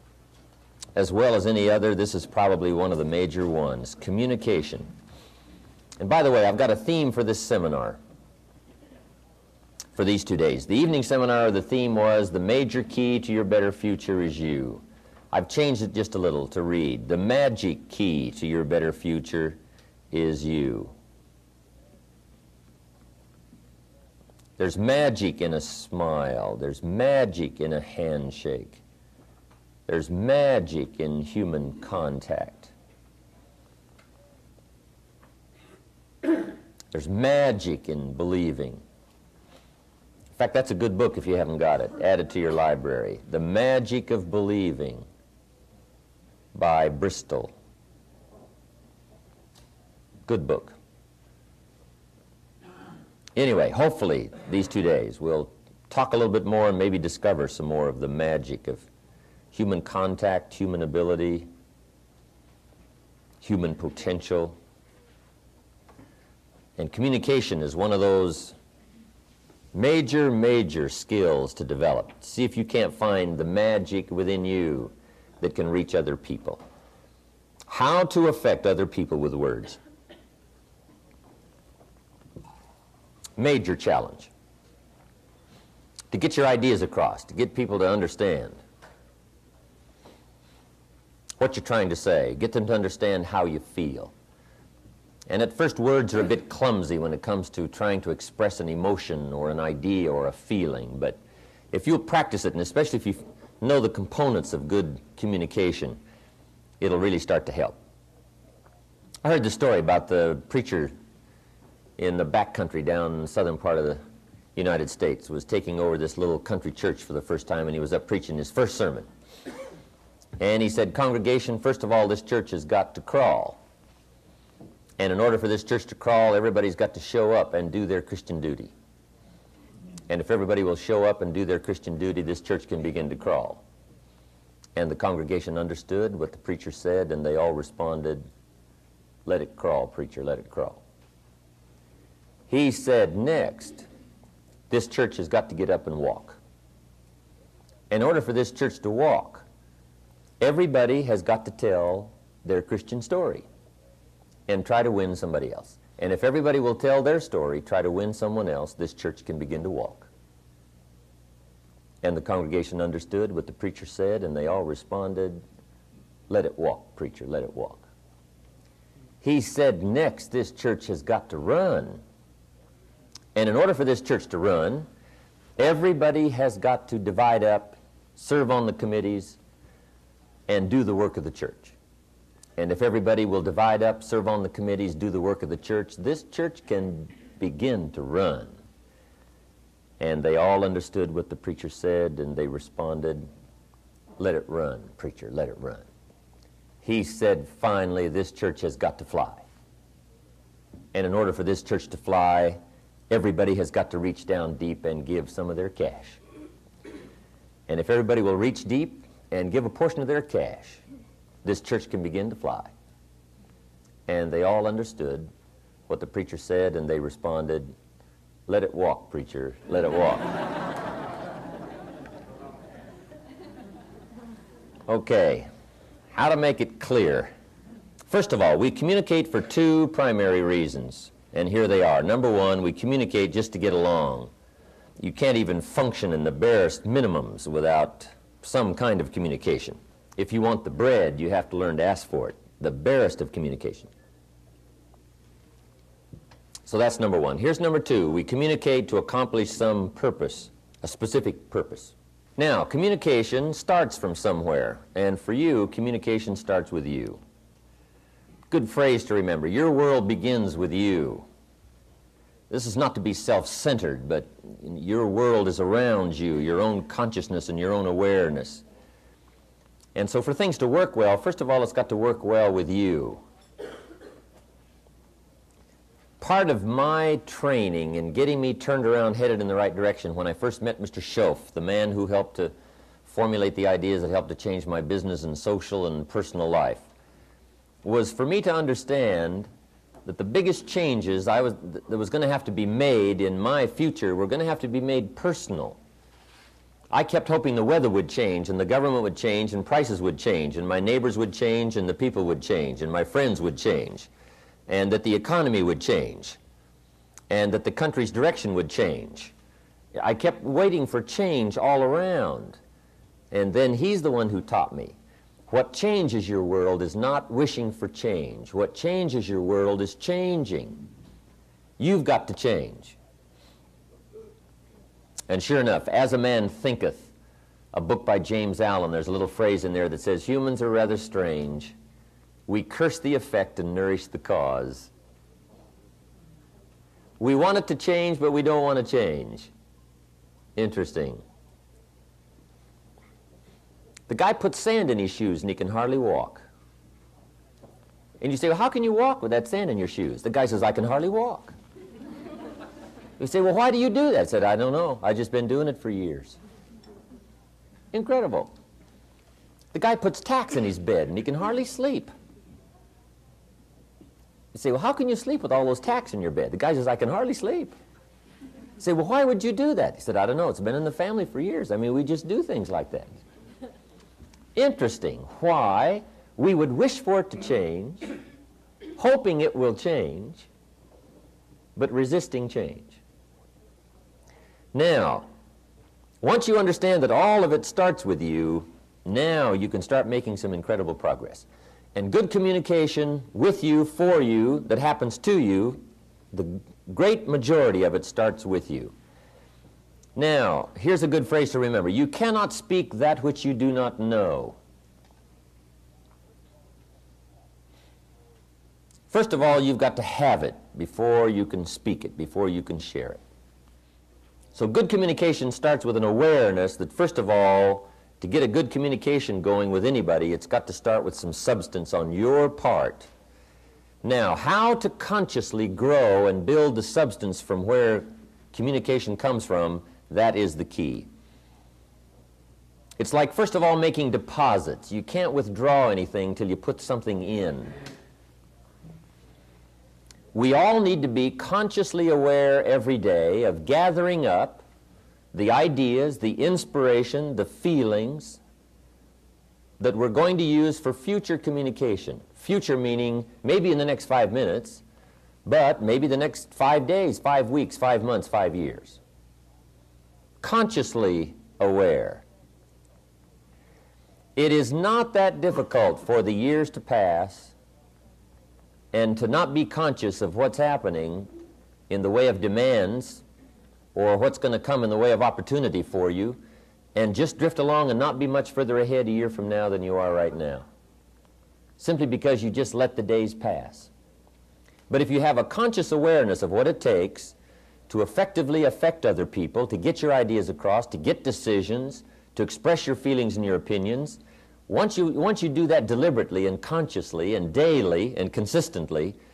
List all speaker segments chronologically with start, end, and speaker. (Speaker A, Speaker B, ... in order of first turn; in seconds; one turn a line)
Speaker A: 0.9-4.9
Speaker A: 6.0-8.0
Speaker A: 10.0-19.6
Speaker A: 20.1-20.9
Speaker A: 24.6-28.8
Speaker A: 29.9-32.7
Speaker A: 36.9-38.8
Speaker A: 40.4-45.1
Speaker A: 46.5-47.5
Speaker A: 50.3-50.8
Speaker A: 53.4-58.9
Speaker A: 59.5-61.5
Speaker A: 63.4-64.5
Speaker A: 66.8-68.5
Speaker A: 69.7-76.6
Speaker A: 77.7-79.8
Speaker A: 83.4-84.3
Speaker A: 86.1-88.6
Speaker A: 91.4-94.1
Speaker A: 95.3-101.2
Speaker A: 101.7-106.0
Speaker A: 106.8-107.8
Speaker A: 109.2-110.9
Speaker A: 112.0-114.0
Speaker A: 114.5-119.1
Speaker A: 120.4-123.6
Speaker A: 125.0-128.7
Speaker A: 130.1-133.6
Speaker A: 134.8-138.2
Speaker A: 139.2-140.8
Speaker A: 142.5-143.9
Speaker A: 144.7-146.4
Speaker A: 147.9-149.4
Speaker A: 150.4-153.5
Speaker A: 154.5-160.1
Speaker A: 162.0-165.4
Speaker A: 166.3-167.9
Speaker A: 169.2-172.0
Speaker A: 173.3-174.9
Speaker A: 175.6-179.4
Speaker A: 180.5-181.8
Speaker A: 182.6-188.6
Speaker A: 190.0-193.3
Speaker A: 194.2-195.9
Speaker A: 196.8-199.4
Speaker A: 200.9-206.2
Speaker A: 207.7-210.8
Speaker A: 211.4-212.7
Speaker A: 214.1-215.3
Speaker A: 215.9-217.7
Speaker A: 218.5-220.4
Speaker A: 224.9-225.5
Speaker A: 226.1-227.3
Speaker A: 228.1-234.3
Speaker A: 235.0-243.9
Speaker A: 246.7-257.2
Speaker A: 258.5-261.3
Speaker A: 262.5-268.6
Speaker A: 269.9-273.2
Speaker A: 276.2-282.5
Speaker A: 283.1-286.9
Speaker A: 287.8-289.5
Speaker A: 290.1-295.8
Speaker A: 296.9-304.1
Speaker A: 304.7-306.4
Speaker A: 307.3-309.3
Speaker A: 310.0-312.6
Speaker A: 313.3-315.0
Speaker A: 315.5-320.9
Speaker A: 321.8-323.0
Speaker A: 325.3-327.1
Speaker A: 327.7-331.8
Speaker A: 332.5-334.9
Speaker A: 337.2-339.5
Speaker A: 340.6-341.2
Speaker A: 344.1-346.5
Speaker A: 348.2-351.5
Speaker A: 353.2-356.4
Speaker A: 357.9-358.5
Speaker A: 359.7-362.1
Speaker A: 364.5-367.8
Speaker A: 368.8-373.1
Speaker A: 374.6-378.1
Speaker A: 379.0-380.5
Speaker A: 381.8-383.0
Speaker A: 384.7-385.3
Speaker A: 386.2-398.9
Speaker A: 400.2-404.6
Speaker A: 409.1-413.2
Speaker A: 414.6-423.1
Speaker A: 424.0-431.1
Speaker A: 433.0-437.8
Speaker A: 440.3-444.6
Speaker A: 445.3-448.4
Speaker A: 449.8-454.8
Speaker A: 455.4-459.0
Speaker A: 460.4-462.2
Speaker A: 464.4-467.5
Speaker A: 468.9-471.3
Speaker A: 471.9-473.2
Speaker A: 473.9-476.4
Speaker A: 476.9-480.6
Speaker A: 481.8-483.9
Speaker A: 484.9-487.4
Speaker A: 487.9-499.2